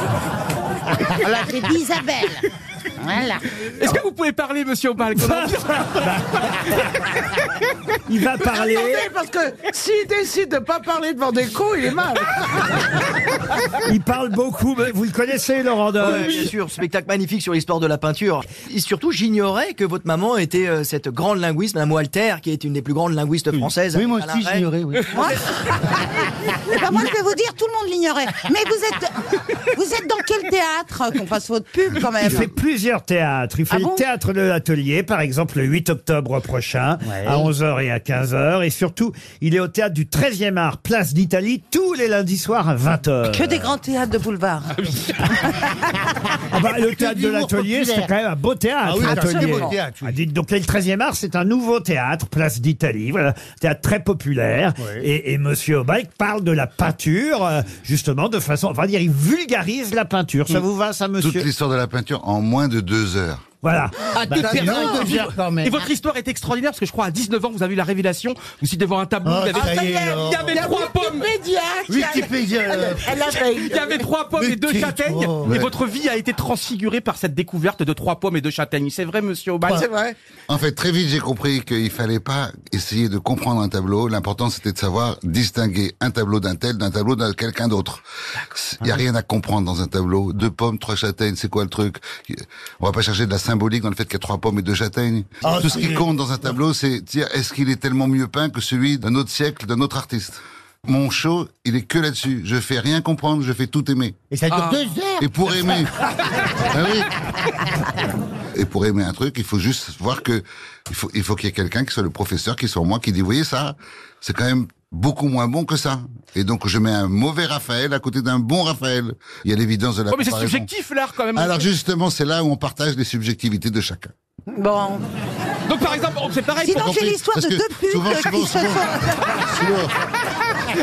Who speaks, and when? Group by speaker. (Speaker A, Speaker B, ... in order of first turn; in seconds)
Speaker A: 1.1-2.5, 3.0-3.6, 25.1-32.5, 33.7-34.0, 43.3-46.2, 49.0-49.8, 124.5-125.0, 126.6-129.4
Speaker B: 3.7-6.9, 64.2-71.3, 73.0-79.9, 104.5-104.8, 120.1-121.7, 125.7-126.9
Speaker C: 5.2-6.2, 8.1-9.1, 13.8-16.4, 32.2-43.7, 46.5-61.5, 63.6-64.8
Speaker D: 8.9-12.4, 70.6-74.0
Speaker E: 16.0-24.7
Speaker F: 23.9-25.1, 46.8-48.1, 48.8-50.1, 54.8-55.0, 64.2-65.8, 69.2-70.6, 71.9-73.6, 74.4-75.6, 79.7-80.0, 95.4-96.0, 104.3-105.8
Speaker G: 61.2-63.4, 75.5-75.7, 80.5-104.2, 105.2-106.0, 106.5-107.1, 108.5-120.7, 121.3-124.1, 126.7-129.9